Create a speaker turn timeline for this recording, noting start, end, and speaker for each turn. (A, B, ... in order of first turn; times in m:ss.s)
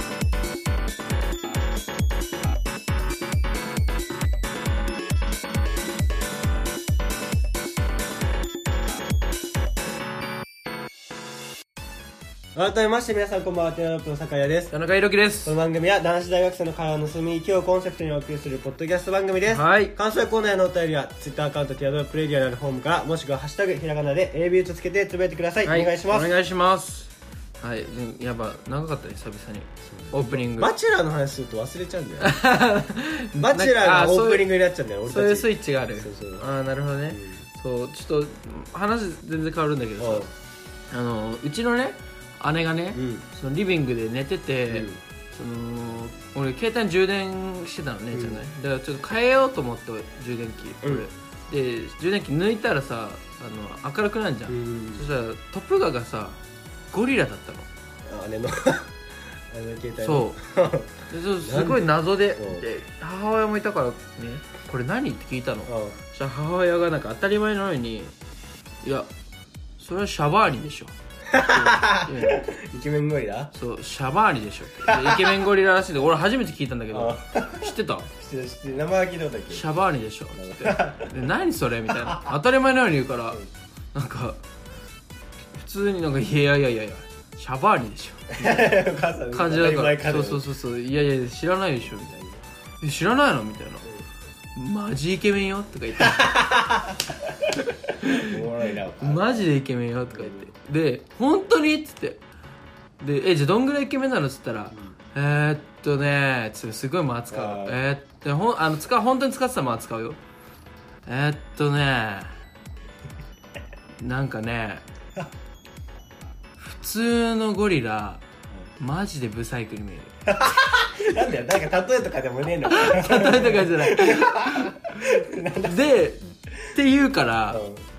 0:12.6-0:14.7 A
0:14.7-0:15.6 B
0:15.4-0:26.3 A
0:19.5-0:20.0 B
0:25.6-0:30.7 B
0:29.9-0:32.4 A
0:32.2-0:34.5 B
0:33.4-0:36.5 A
0:35.1-0:40.3 B
0:37.1-0:37.5 A
0:40.0-0:40.3 A
0:40.9-0:56.4 B
0:42.9-0:43.3 A
0:44.7-0:45.0 A
0:48.1-0:48.4 A
0:54.5-0:55.1 A
0:56.9-0:57.7 B
0:58.1-0:58.9 A
0:59.5-1:02.6 A
1:00.0-1:00.4 B
1:01.1-1:08.1 B
1:05.7-1:06.0 A
1:08.8-1:09.1 B
1:09.8-1:12.4 B
1:11.3-1:13.5 A
1:13.5-1:18.1 B
1:14.8-1:15.4 A
1:16.9-1:19.6 A
1:19.5-1:23.4 B
1:20.4-1:21.2 A
1:22.0-1:22.3 A
1:23.9-1:24.4 B
1:25.5-1:28.7 B
1:28.3-1:30.4 A
1:29.3-1:32.2 B
1:32.0-1:32.4 A
1:32.8-1:33.8 B
1:34.6-1:36.3 B
1:36.0-1:39.5 A
1:38.0-1:38.4 B
1:38.9-1:42.2 B
1:40.1-1:40.5 A
1:43.0-1:50.2 B
1:47.3-1:47.8 A
1:51.1-1:52.4 B
1:54.0-1:54.8 B
1:56.6-1:58.2 B
1:58.8-2:00.1 B
2:00.3-2:06.0 A
2:02.7-2:07.6 B
2:07.5-2:07.8 A